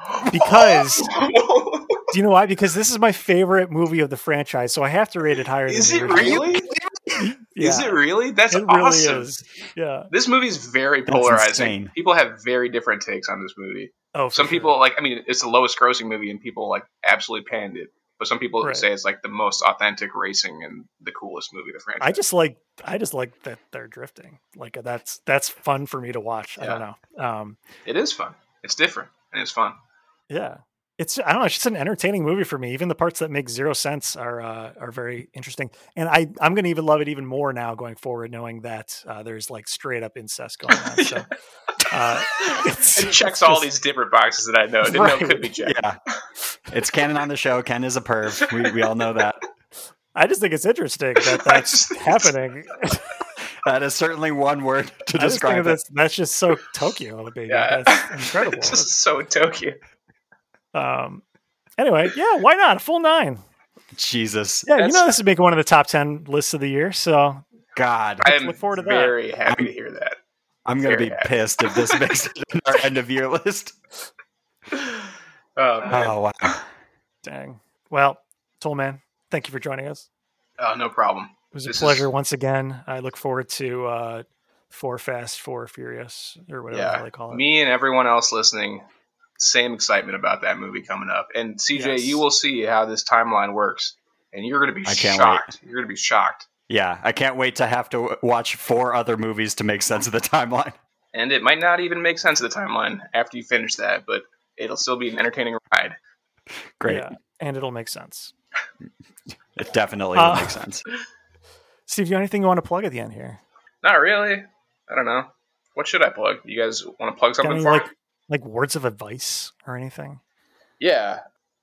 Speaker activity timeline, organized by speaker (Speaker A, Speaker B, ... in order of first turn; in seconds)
Speaker A: 0.1-2.0, 5.7-6.7, 7.6-9.2, 10.1-22.2, 27.9-29.8, 40.9-41.2, 42.3-45.8, 48.4-48.8, 51.3-52.3, 57.5-59.8, 64.8-65.1, 68.2-70.2, 70.8-72.0, 74.7-75.0, 75.6-76.2, 80.6-82.1, 86.7-88.8, 89.4-96.5, 101.1-106.0, 113.8-117.9, 120.8-121.2
Speaker B: 0.3-1.1, 2.1-6.5, 7.2-10.1, 14.1-14.7, 18.6-18.9, 22.0-27.6, 30.3-41.3, 41.9-43.7, 44.9-45.5, 50.1-53.1, 55.2-58.9, 60.7-61.2, 61.8-63.4, 64.7-67.4, 68.2-69.2, 77.2-80.0, 81.5-87.4, 91.7-92.2, 106.8-108.3, 110.1-110.6, 111.9-113.4, 117.4-120.2
Speaker C: 6.1-7.3, 11.1-11.9, 45.6-46.0, 46.7-49.4, 53.6-55.8, 63.9-64.7, 67.7-68.2, 70.7-73.8, 75.8-76.6, 94.8-95.5, 96.7-100.8, 106.8-107.1, 109.5-110.8